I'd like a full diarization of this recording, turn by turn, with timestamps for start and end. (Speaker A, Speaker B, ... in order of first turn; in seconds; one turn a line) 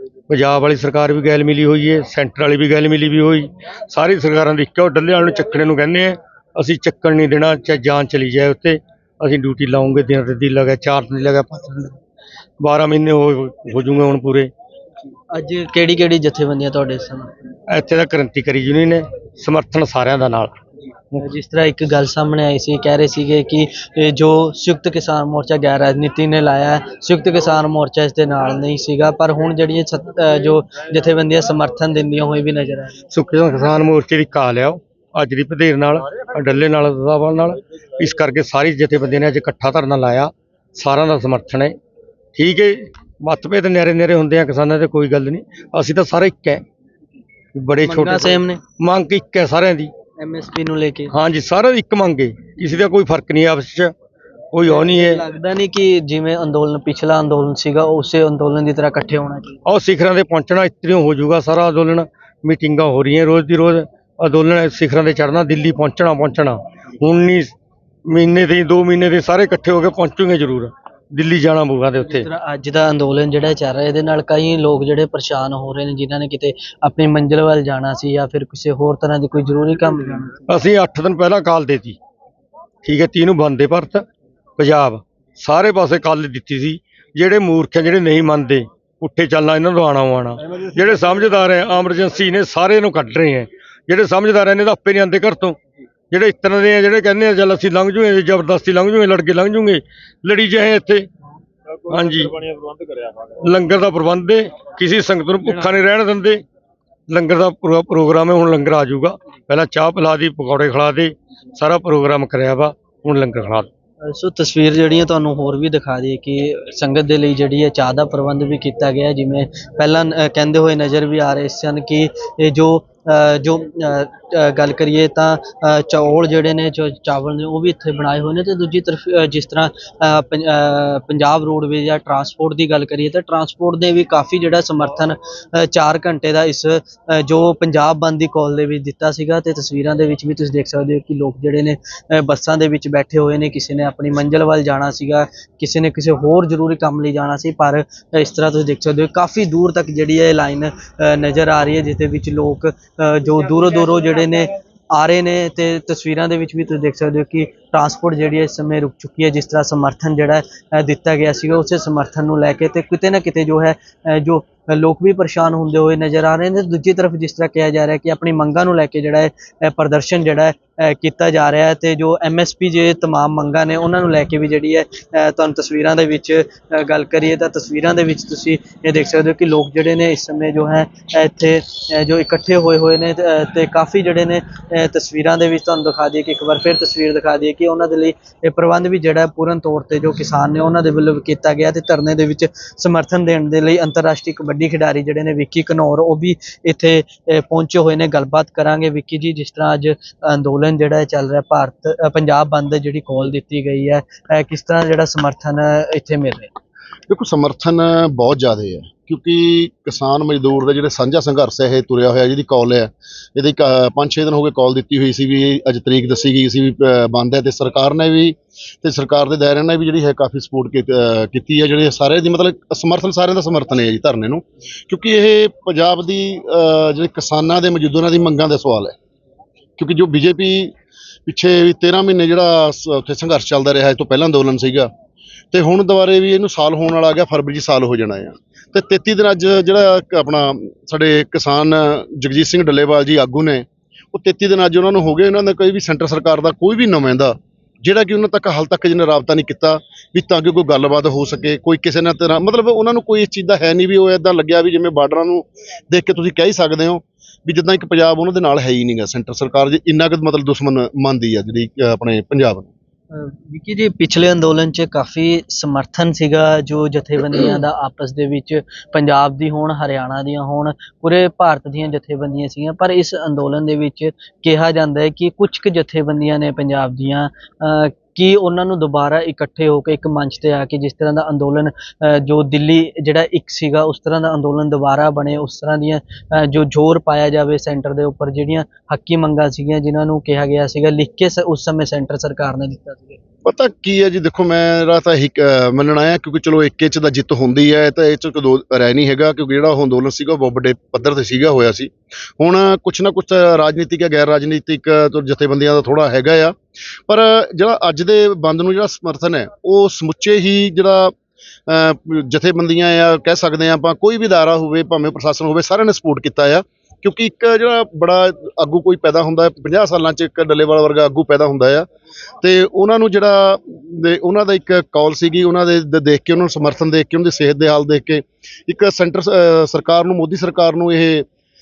Speaker A: 0.3-12.0
Speaker A: 12.6-14.5
Speaker B: 15.3-17.5
Speaker A: 17.7-20.6
Speaker B: 21.2-33.0
Speaker A: 33.1-41.8
Speaker A: 42.4-46.6
Speaker A: 47.5-49.9
Speaker B: 47.8-48.6
Speaker B: 50.2-51.1
Speaker A: 51.1-53.9
Speaker A: 54.5-55.2
Speaker B: 54.6-59.6
Speaker A: 59.7-67.5
Speaker A: 68.1-72.3
Speaker B: 72.0-80.5
Speaker A: 80.5-82.0
Speaker A: 82.8-84.1
Speaker A: 84.6-95.6
Speaker A: 96.1-101.1
Speaker A: 101.9-102.5
Speaker A: 103.1-106.4
Speaker A: 107.1-113.7
Speaker B: 114.1-206.5
Speaker C: 207.1-229.0
Speaker C: 229.8-230.7
Speaker C: 231.3-234.9
Speaker C: 235.5-262.7
Speaker B: 263.1-293.2
Speaker C: 293.4-306.6
Speaker C: 307.1-311.1
Speaker C: 311.7-321.9
Speaker C: 322.4-331.3